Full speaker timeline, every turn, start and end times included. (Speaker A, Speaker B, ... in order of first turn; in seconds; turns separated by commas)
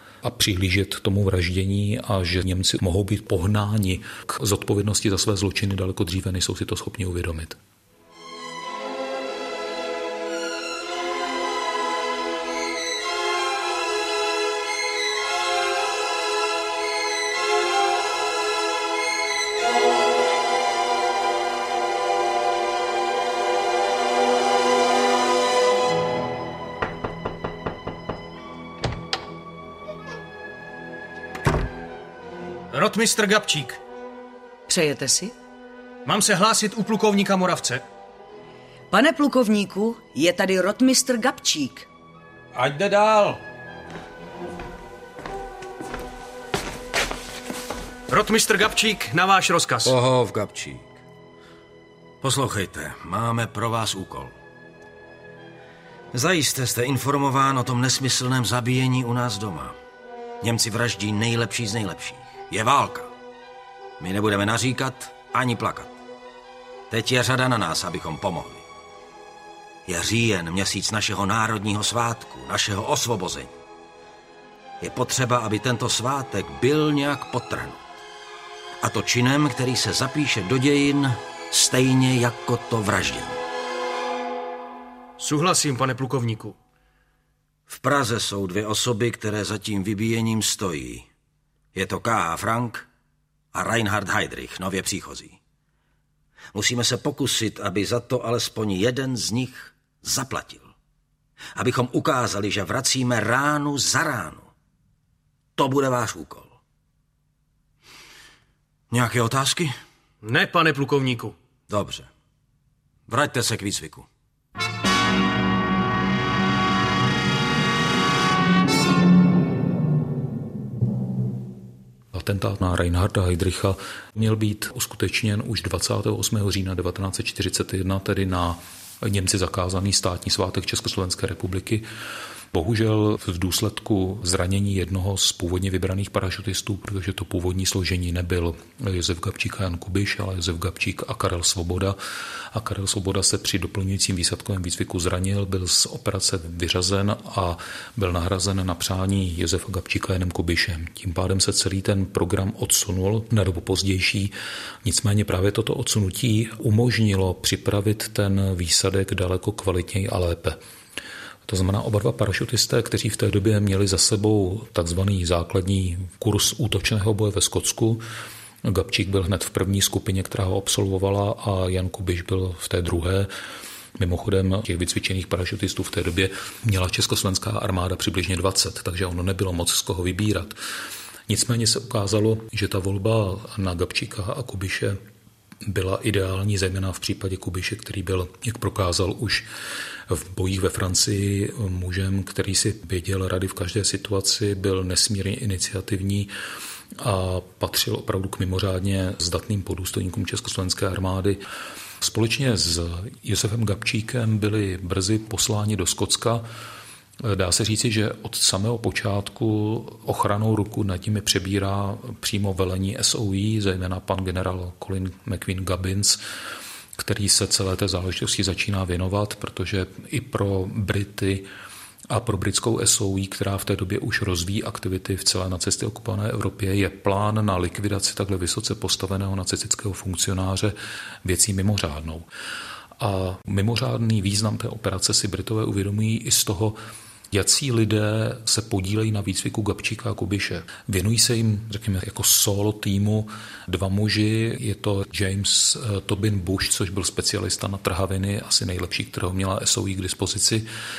Speaker A: 0.2-7.6, Speaker B: 32.7-33.8, Speaker C: 34.7-35.3, Speaker B: 36.1-37.8, Speaker C: 38.9-41.9, Speaker D: 42.5-43.4, Speaker B: 48.1-49.9, Speaker D: 49.8-50.9, Speaker D: 52.2-54.4, Speaker D: 56.1-59.8, Speaker D: 60.4-63.1, Speaker D: 64.0-66.0, Speaker D: 66.9-68.6, Speaker D: 69.8-73.5, Speaker D: 74.8-77.8, Speaker D: 78.8-83.4, Speaker B: 85.2-86.5, Speaker D: 87.7-91.1, Speaker D: 91.7-92.9, Speaker D: 93.5-95.4, Speaker D: 96.5-100.7, Speaker D: 101.5-104.5, Speaker D: 105.6-106.5, Speaker D: 108.9-109.7, Speaker B: 110.2-111.3, Speaker D: 111.7-112.1, Speaker D: 113.1-114.1, Speaker A: 122.1-131.9, Speaker A: 132.5-142.0, Speaker A: 142.5-160.6, Speaker A: 161.5-168.0, Speaker A: 168.7-173.3, Speaker A: 174.0-180.6, Speaker A: 181.3-185.0, Speaker A: 185.7-189.5, Speaker A: 190.1-196.3, Speaker A: 197.0-201.4, Speaker A: 202.0-206.4, Speaker A: 207.2-216.2, Speaker A: 217.0-221.5, Speaker A: 222.1-232.3, Speaker A: 233.0-236.8, Speaker A: 237.3-250.7